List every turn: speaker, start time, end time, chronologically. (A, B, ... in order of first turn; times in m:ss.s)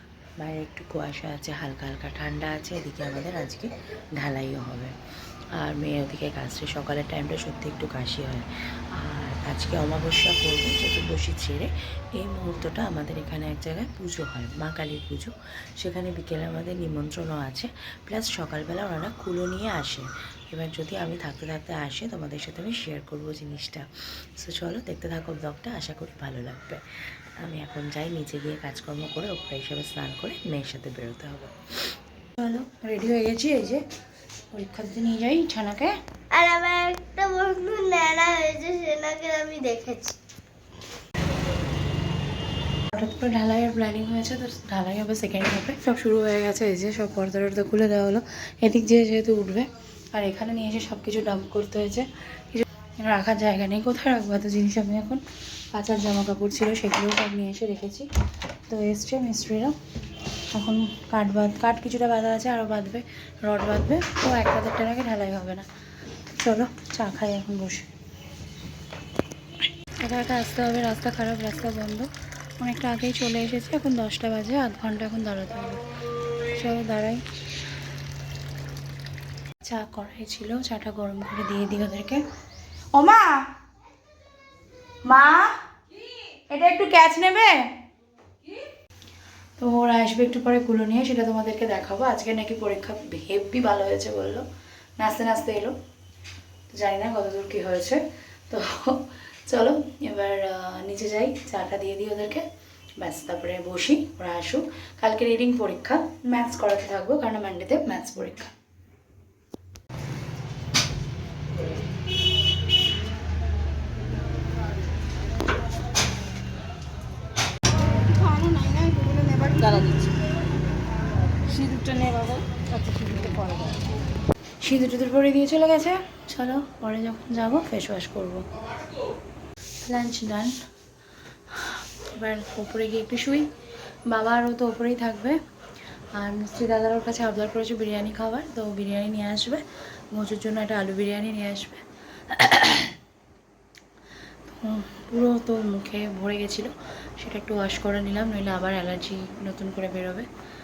0:00.4-0:04.9 A
0:04.2-0:04.9 B
0:05.6-0:08.4 A
0:05.6-0:08.4 B
0:09.0-0:11.7 B
0:09.0-0:11.7 A
0:12.2-0:15.3 B
0:12.2-0:15.3 A
0:15.8-0:20.0 A
0:15.9-0:17.6 B
0:18.2-0:23.8 B
0:20.8-0:23.8 A
0:24.4-0:26.8 B
0:24.4-0:26.8 A
0:27.4-0:31.5 A
0:27.5-0:29.5 B
0:32.4-0:33.8 A
0:34.5-0:35.9 A
0:36.3-0:40.2 C
0:42.9-0:58.1 A
0:58.7-0:59.7 A
1:00.5-1:05.7 A
1:06.4-1:07.9 A
1:10.0-1:15.8 A
1:16.5-1:17.2 A
1:19.6-1:22.2 A
1:22.9-1:23.4 A
1:25.1-1:25.5 A
1:26.5-1:27.7 A
1:29.6-1:34.4 A
1:35.0-1:35.7 A
1:36.7-1:42.4 A
1:43.0-1:48.5 A
1:58.0-2:00.1 B
2:01.5-2:03.8 B
2:04.6-2:08.4 A
2:09.8-2:10.5 A
2:11.5-2:13.5 A
2:14.1-2:15.4 A
2:16.2-2:23.0 A
2:24.5-2:30.3 A